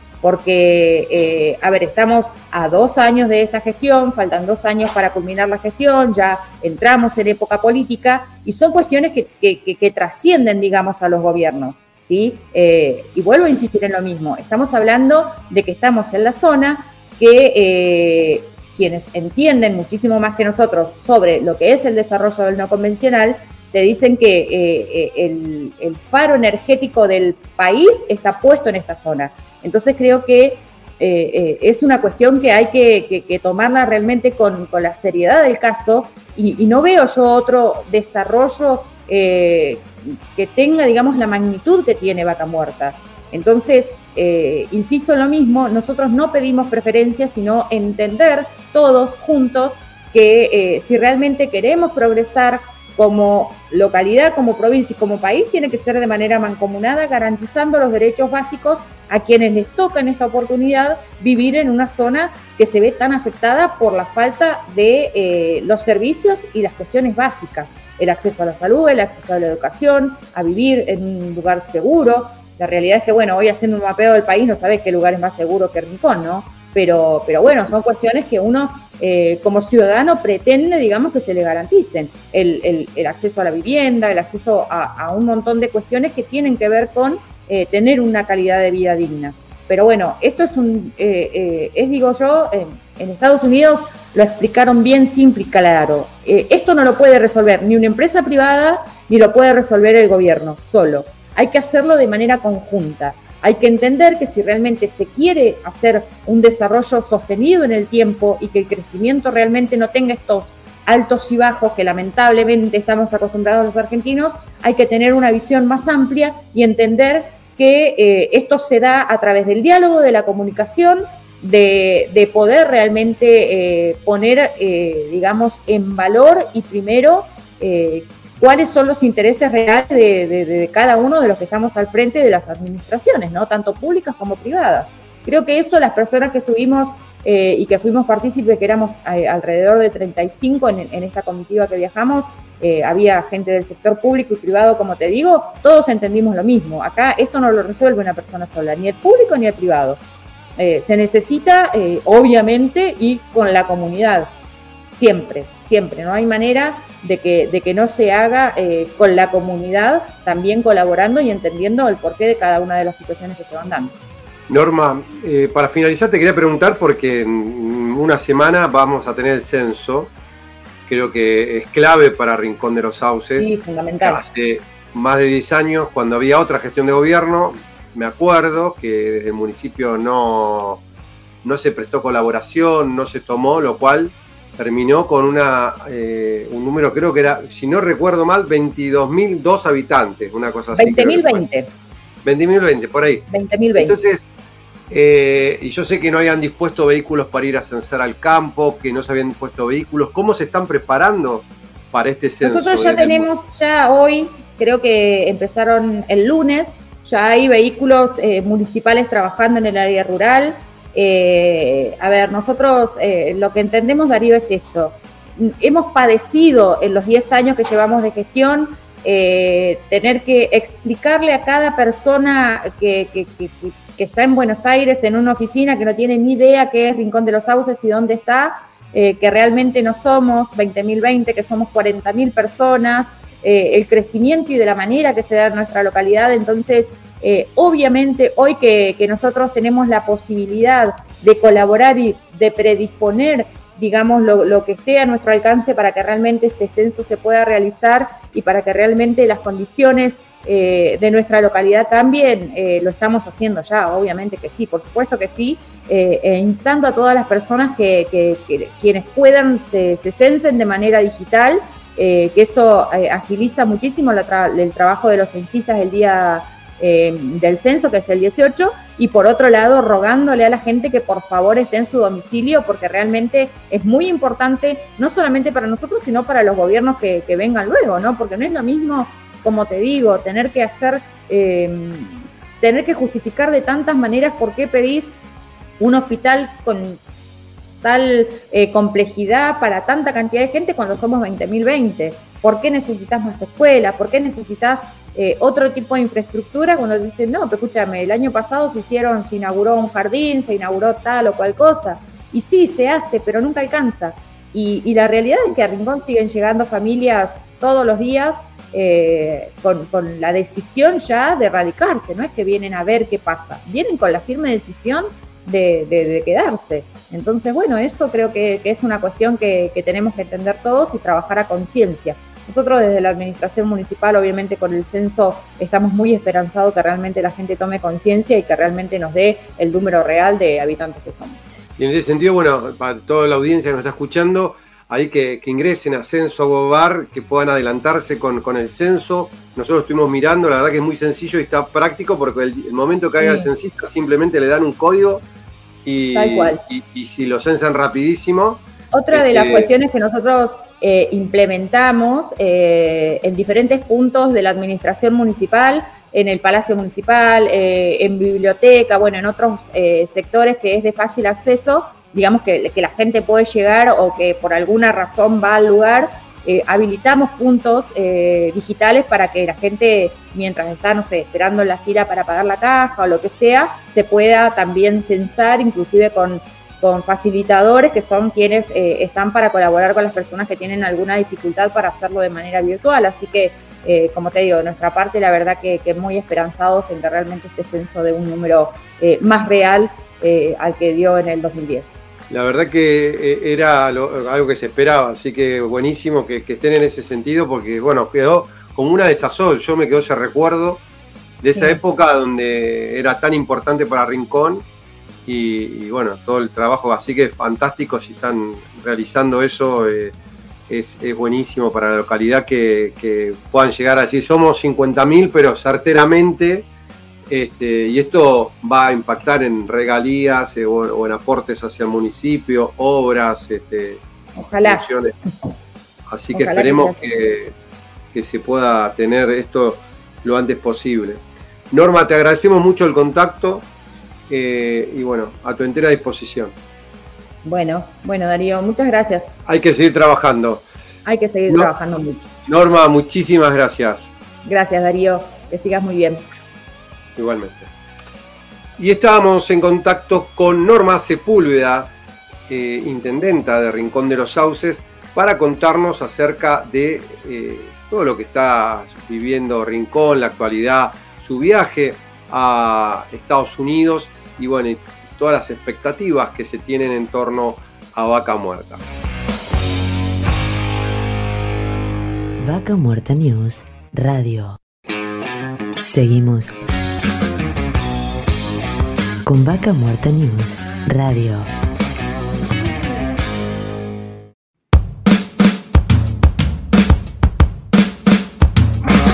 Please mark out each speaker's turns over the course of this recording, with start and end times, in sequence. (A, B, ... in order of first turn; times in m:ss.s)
0:00.2-2:30.0 A
2:30.6-2:34.3 A
2:34.9-2:43.9 A
2:44.5-2:50.1 B
2:50.9-3:00.8 B
2:53.4-2:54.2 A
3:01.4-3:11.4 B
3:10.7-3:11.7 A
3:12.2-3:14.3 B
3:13.3-3:14.0 A
3:14.9-3:23.3 B
3:22.4-4:45.1 A
4:45.8-4:47.0 A
4:47.8-5:31.4 A
5:31.8-5:45.2 B
5:43.2-5:43.5 A
5:45.8-5:49.7 B
5:46.1-5:46.6 A
5:48.9-6:31.9 A
6:32.3-6:40.8 B
6:41.4-6:44.6 B
6:41.5-6:41.8 A
6:45.2-6:50.1 B
6:50.7-6:56.6 B
6:57.3-7:04.0 B
7:04.4-7:04.9 A
7:04.6-7:05.1 B
7:06.1-7:07.5 B
7:06.3-7:07.1 A
7:08.1-7:13.6 B
7:14.3-7:16.5 B
7:17.4-7:19.3 A
7:19.4-7:20.6 B
7:21.0-7:22.3 A
7:22.5-7:24.1 B
7:24.4-7:26.3 A
7:27.2-7:27.7 B
7:28.8-7:31.9 B
7:32.5-7:48.8 B
7:52.4-7:54.6 C
7:55.8-7:56.6 C
7:59.2-8:01.5 C